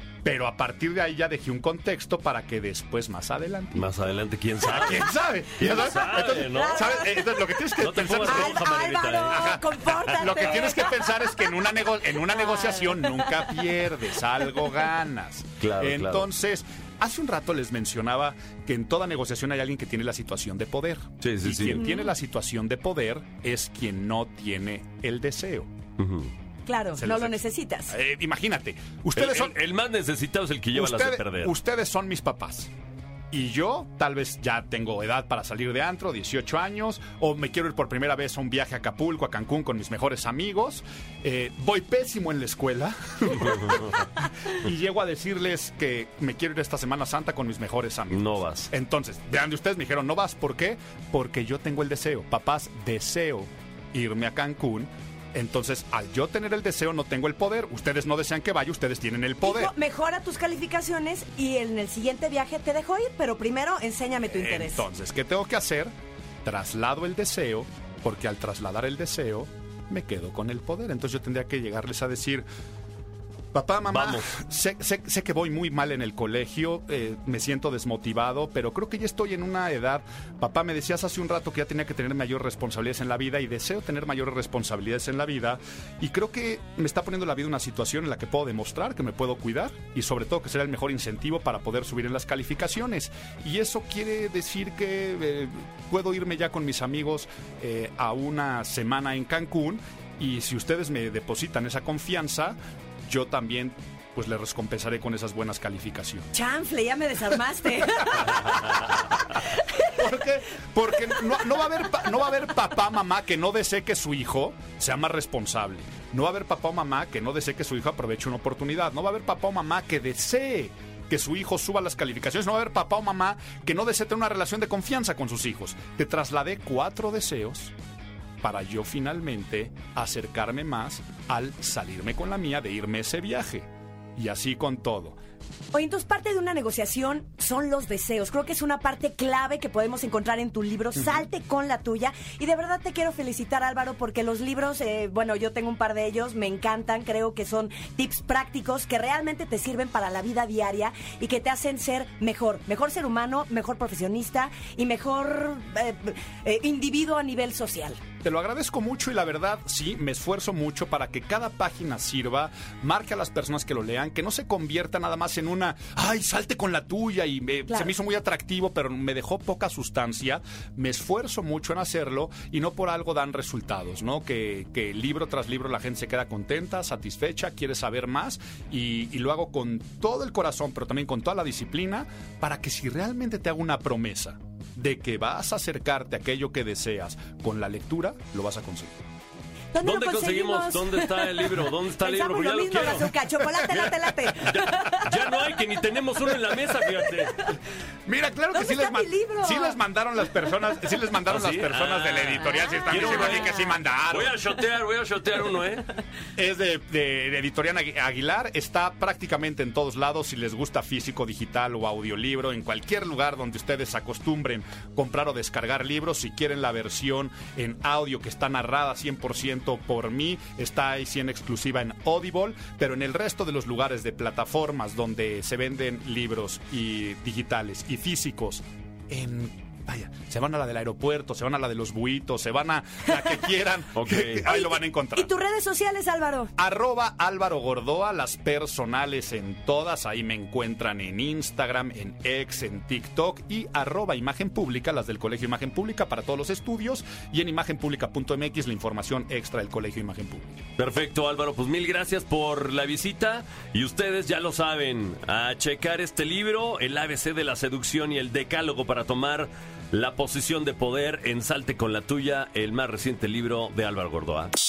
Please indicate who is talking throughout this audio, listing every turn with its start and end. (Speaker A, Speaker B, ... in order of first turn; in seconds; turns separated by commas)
Speaker A: 0.2-3.9, Speaker B: 3.7-7.0, Speaker A: 4.6-8.6, Speaker C: 6.5-7.4, Speaker B: 7.8-10.6, Speaker C: 8.3-11.5, Speaker A: 9.3-25.7, Speaker C: 12.1-13.6, Speaker B: 15.6-16.3, Speaker B: 21.2-21.8, Speaker C: 21.8-22.1, Speaker B: 26.0-26.3, Speaker C: 26.6-27.9, Speaker A: 27.0-29.6, Speaker B: 29.1-31.5, Speaker A: 30.7-32.7, Speaker A: 33.3-59.7, Speaker B: 48.1-48.7, Speaker C: 59.4-64.8, Speaker A: 64.3-65.9, Speaker A: 66.4-72.5, Speaker A: 73.5-106.3, Speaker B: 73.9-74.3, Speaker C: 106.3-110.0, Speaker A: 110.0-127.7, Speaker A: 128.4-135.2, Speaker C: 135.7-158.0, Speaker A: 158.2-189.0, Speaker C: 189.7-195.1, Speaker B: 189.8-193.1, Speaker B: 194.4-197.4, Speaker A: 198.1-204.3, Speaker C: 198.5-199.8, Speaker B: 201.3-205.9, Speaker C: 202.7-203.6, Speaker A: 206.4-235.3, Speaker B: 233.9-234.4, Speaker C: 234.4-236.5, Speaker A: 236.6-250.6, Speaker B: 250.8-264.5